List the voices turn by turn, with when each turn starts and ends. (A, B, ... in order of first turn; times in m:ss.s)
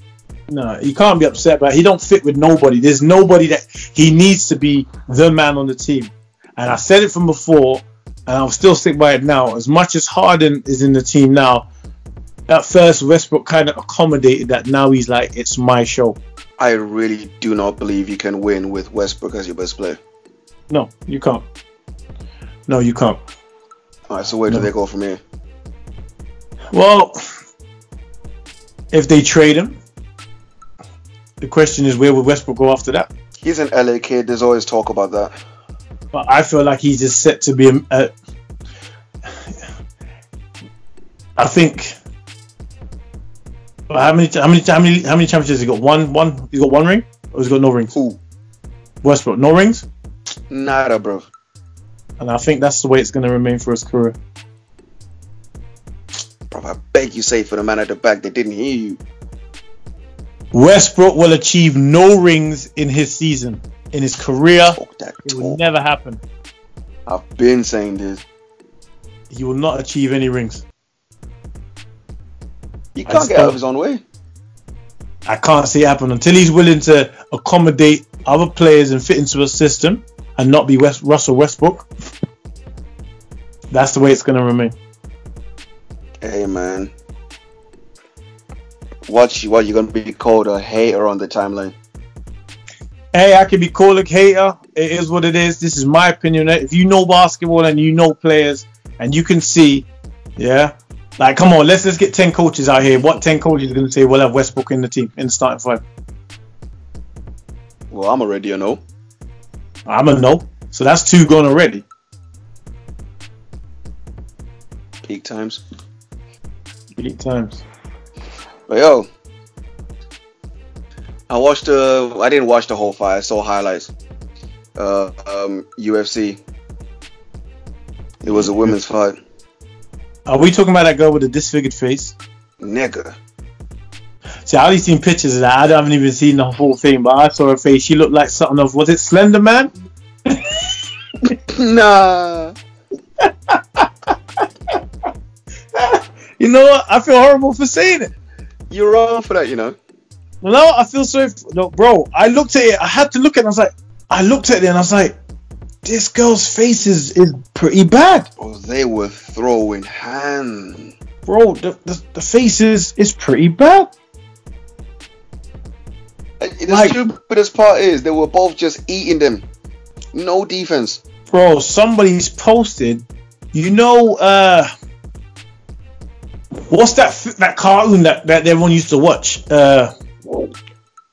0:00.5-0:11.7 A
0:12.5-0:16.2 A
0:16.6-0:20.0 B
0:20.7-0:21.4 A
0:22.7-0:23.2 A
0:24.1-0:25.2 B
0:26.7-0:27.2 A
0:28.9-0:29.8 A
0:31.4-0:33.1 A
0:33.4-0:35.3 B
0:36.1-0:38.1 A
0:41.4-0:41.9 A
0:43.9-0:47.9 A
0:47.9-0:48.2 B
0:49.0-0:49.8 A
0:50.5-0:51.3 B
0:52.2-0:54.2 A
0:56.5-0:59.0 B
1:00.5-1:06.2 A
1:04.8-1:05.6 B
1:07.1-1:08.2 B
1:09.3-1:10.6 A
1:12.9-1:14.0 B
1:13.1-1:13.6 A
1:15.2-1:21.9 A
1:23.7-1:24.7 A
1:26.2-1:26.9 B
1:29.1-1:31.7 B
1:33.1-1:45.8 A
1:47.9-1:48.8 B
1:49.8-1:51.8 A
1:55.0-1:55.6 B
1:57.0-1:57.6 A
1:58.7-1:59.1 B
2:01.3-2:03.9 B
2:04.8-2:06.4 B
2:08.2-2:09.2 B
2:08.4-2:08.7 A
2:10.2-2:12.2 A
2:12.6-2:13.2 B
2:14.4-2:19.7 A
2:20.3-2:20.8 A
2:21.5-2:22.5 B
2:23.2-2:23.9 A
2:25.7-2:28.1 A
2:28.7-2:29.8 B
2:30.4-2:35.2 A
2:35.8-2:38.3 A
2:38.4-2:40.9 B
2:41.2-2:43.9 A
2:46.4-2:49.4 B
2:46.7-2:47.0 A
2:50.1-2:51.0 B
2:51.3-2:54.7 A
2:56.7-2:59.9 A